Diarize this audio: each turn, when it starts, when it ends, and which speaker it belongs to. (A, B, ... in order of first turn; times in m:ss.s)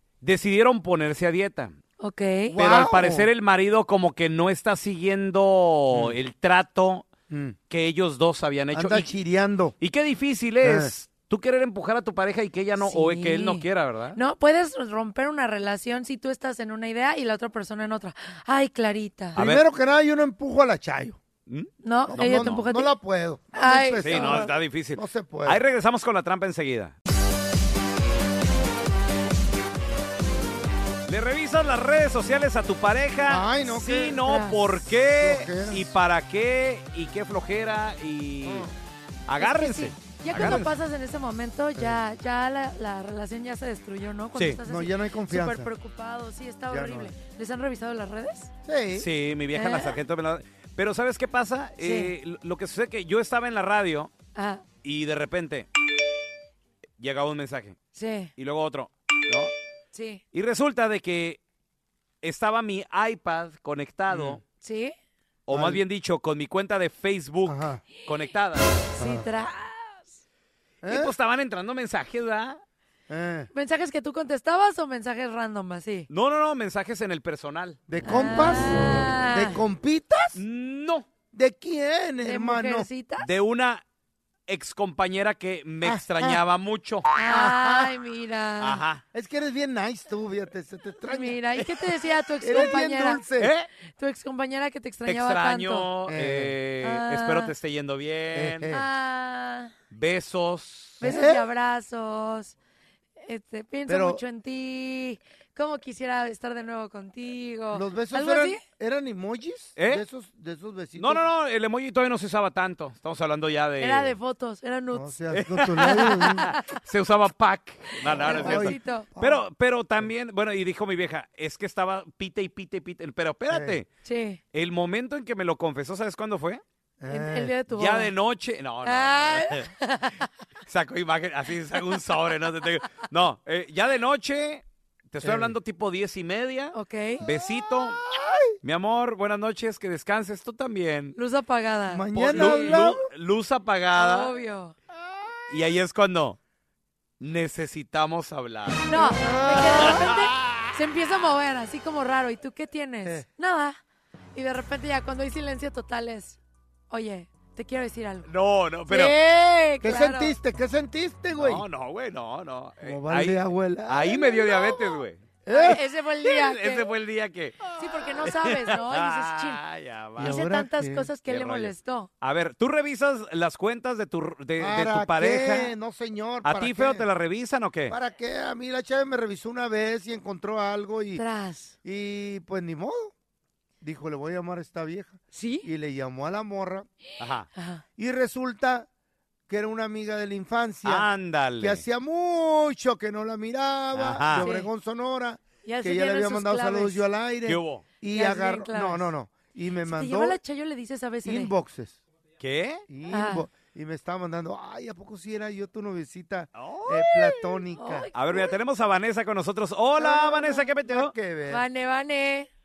0:00.2-0:01.7 A
0:02.0-0:02.5 B
0:02.5-0:03.3 C
0:02.6-0:07.1 A
0:07.3-0:07.6 C
0:07.7-0:09.1 A
0:08.7-0:09.7 C
0:09.8-0:14.2 A
0:10.6-0:10.9 C
0:12.8-0:19.4 B
0:19.4-0:19.6 A
0:19.4-0:21.2 C
0:21.5-0:22.6 A
0:21.8-0:22.9 B
0:22.1-0:25.6 C
0:23.5-0:24.5 B
0:24.0-0:27.0 A
0:31.1-0:38.7 A
0:33.3-0:34.4 C
0:34.2-0:34.6 B
0:35.1-0:35.9 C
0:38.4-0:38.7 C
0:39.3-0:40.7 A
0:39.4-0:48.5 B
0:44.4-0:44.6 A
0:44.6-0:45.7 C
0:46.7-0:47.1 C
0:48.6-0:49.1 C
0:48.9-0:54.1 A
0:49.5-0:50.0 B
0:51.8-0:52.1 B
0:54.3-0:54.6 B
0:54.8-0:55.7 A
0:57.0-0:57.8 A
0:57.9-0:58.3 B
0:58.4-0:59.5 A
0:59.9-1:00.2 B
1:00.3-1:01.4 A
1:02.2-1:04.4 A
1:04.1-1:04.4 C
1:04.6-1:04.9 B
1:05.5-1:08.8 A
1:05.5-1:05.8 C
1:07.5-1:07.8 C
1:09.0-1:10.2 B
1:09.0-1:09.3 C
1:10.8-1:11.1 C
1:10.8-1:12.6 A
1:13.1-1:13.5 C
1:13.5-1:16.1 B
1:16.1-1:17.8 A
1:17.9-1:20.4 C
1:18.0-1:19.6 B
1:20.4-1:21.0 A
1:21.3-1:22.9 C
1:22.2-1:23.3 B
1:23.2-1:23.8 A
1:24.5-1:27.1 A
1:25.8-1:26.4 C
1:27.1-1:28.8 B
1:27.3-1:27.9 C
1:28.6-1:29.0 A
1:29.1-1:31.4 C
1:31.0-1:33.2 B
1:32.4-1:33.5 C
1:33.4-1:33.7 A
1:33.9-1:35.9 B
1:35.0-1:38.7 A
1:36.1-1:36.5 C
1:36.8-1:37.5 B
1:38.3-1:38.8 C
1:38.7-1:39.7 B
1:39.9-1:41.0 A
1:41.0-1:42.5 B
1:41.0-1:41.4 C
1:43.2-1:48.6 B
1:43.9-1:44.2 C
1:47.7-1:51.2 C
1:49.8-1:50.0 A
1:51.0-1:54.2 A
1:53.8-1:55.1 B
1:54.9-1:56.5 C
1:55.3-2:03.9 A
1:58.0-1:59.4 C
1:58.1-1:59.1 B
2:03.5-2:03.8 C
2:04.0-2:04.4 B
2:04.5-2:06.6 A
2:07.0-2:07.5 C
2:07.1-2:08.1 B
2:07.7-2:09.7 A
2:08.8-2:10.3 B
2:10.7-2:18.0 A
2:15.2-2:15.5 C
2:16.7-2:17.2 B
2:17.6-2:18.6 C
2:18.6-2:21.2 A
2:21.1-2:22.8 B
2:21.9-2:23.1 C
2:22.3-2:24.4 A
2:24.0-2:24.7 B
2:25.5-2:26.4 A
2:27.2-2:30.3 A
2:28.9-2:33.8 B
2:29.0-2:30.7 C
2:34.3-2:36.4 B
2:36.9-2:38.3 B
2:38.3-2:39.1 A
2:38.9-2:40.4 B
2:39.8-2:41.6 C
2:41.4-2:50.4 A
2:42.8-2:44.9 C
2:45.4-2:45.8 C
2:45.5-2:46.9 B
2:47.7-2:49.6 B
2:50.2-2:51.1 C
2:50.2-2:52.1 B
2:51.3-2:55.7 A
2:54.6-2:57.0 C
2:56.4-2:57.9 A
2:57.9-3:01.2 C
3:01.1-3:01.7 B
3:01.8-3:03.1 C
3:03.8-3:06.9 C
3:05.3-3:05.7 B
3:07.2-3:07.5 A
3:07.5-3:07.8 B
3:08.0-3:08.9 C
3:09.5-3:11.1 C
3:10.8-3:11.8 A
3:11.6-3:20.4 C
3:13.9-3:14.5 A
3:14.4-3:14.7 B
3:15.6-3:17.0 B
3:17.4-3:17.9 A
3:18.1-3:19.1 B
3:19.8-3:21.5 B
3:21.2-3:22.0 C
3:22.4-3:22.8 A
3:22.9-3:28.1 C
3:23.1-3:23.4 B
3:26.5-3:27.4 A
3:27.7-3:28.4 B
3:28.1-3:31.1 A
3:30.0-3:31.6 C
3:31.5-3:32.5 B